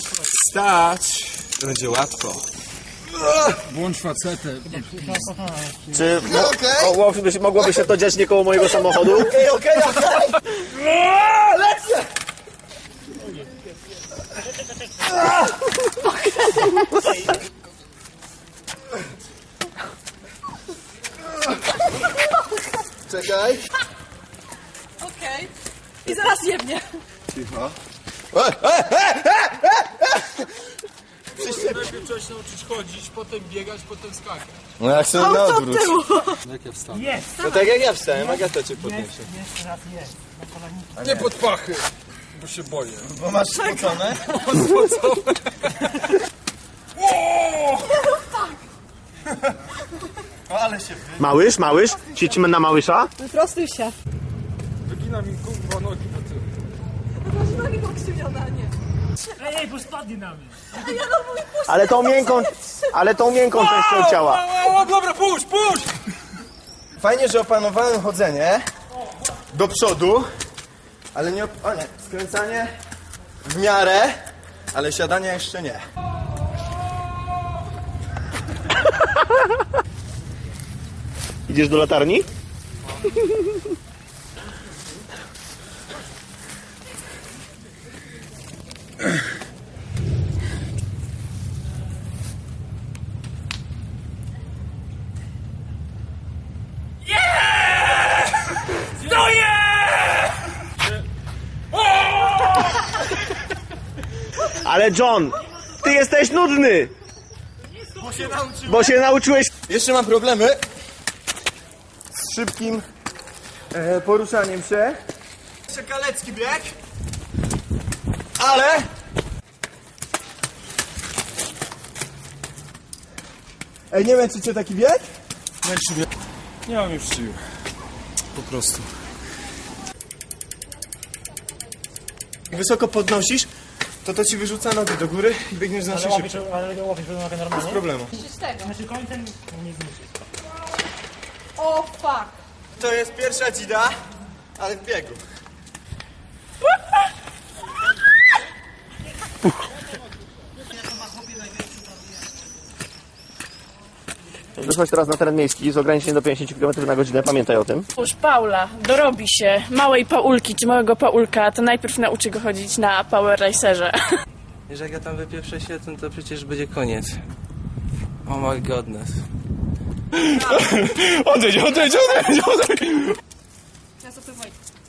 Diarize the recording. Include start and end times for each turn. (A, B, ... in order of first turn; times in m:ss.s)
0:00.3-0:02.5 A
0:03.1-0:03.6 A
0:03.6-0:05.3 B
0:05.9-0:09.4 C
0:06.2-0:06.9 A
0:08.9-0:12.0 A
0:16.4-0:16.7 D
0:23.1-0:23.6 A
0:25.0-0:25.5 D
0:26.0-0:27.0 D
0:27.3-0:27.8 A
0:28.3-0:30.5 A
0:31.4-0:34.5 B
0:31.4-0:31.9 A
0:34.8-0:36.0 A
0:35.2-0:36.4 D
0:36.4-0:37.2 B
0:37.4-0:39.3 A
0:39.6-0:40.1 E
0:41.0-0:41.3 A
0:41.0-0:43.1 B
0:43.0-0:44.2 A
0:44.3-0:45.4 B
0:47.0-0:47.9 B
0:50.5-0:51.2 A
0:51.2-0:53.1 C
0:53.2-0:53.9 D
0:54.8-0:56.4 B
0:57.2-0:58.7 D
0:59.5-1:00.5 E
1:00.7-1:02.8 D
1:01.6-1:04.5 C
1:03.5-1:05.9 B
1:07.0-1:08.6 A
1:09.5-1:10.3 A
1:11.1-1:12.7 A
1:13.4-1:14.2 A
1:14.7-1:15.8 A
1:21.5-1:22.3 C
1:39.2-1:39.4 B
1:44.5-1:46.9 C
1:48.0-1:48.9 A
1:48.6-1:49.5 C
1:49.7-1:50.6 A
1:52.1-1:52.8 A
1:53.7-1:55.0 A
1:55.7-1:56.7 A
1:58.4-1:58.9 A
2:03.9-2:05.1 A
2:05.6-2:06.0 B
2:06.6-2:07.4 B
2:08.3-2:08.9 B
2:12.5-2:13.5 A
2:14.0-2:16.4 A
2:16.3-2:17.6 E
2:17.5-2:18.1 A
2:18.1-2:18.8 D
2:18.8-2:19.9 E
2:21.6-2:22.3 D
2:22.8-2:24.0 A
2:24.6-2:25.2 A
2:34.6-2:37.9 C
2:38.0-2:44.1 F
2:44.7-2:47.2 G
2:48.2-2:49.2 G
2:50.2-2:50.8 G
2:50.8-2:53.2 A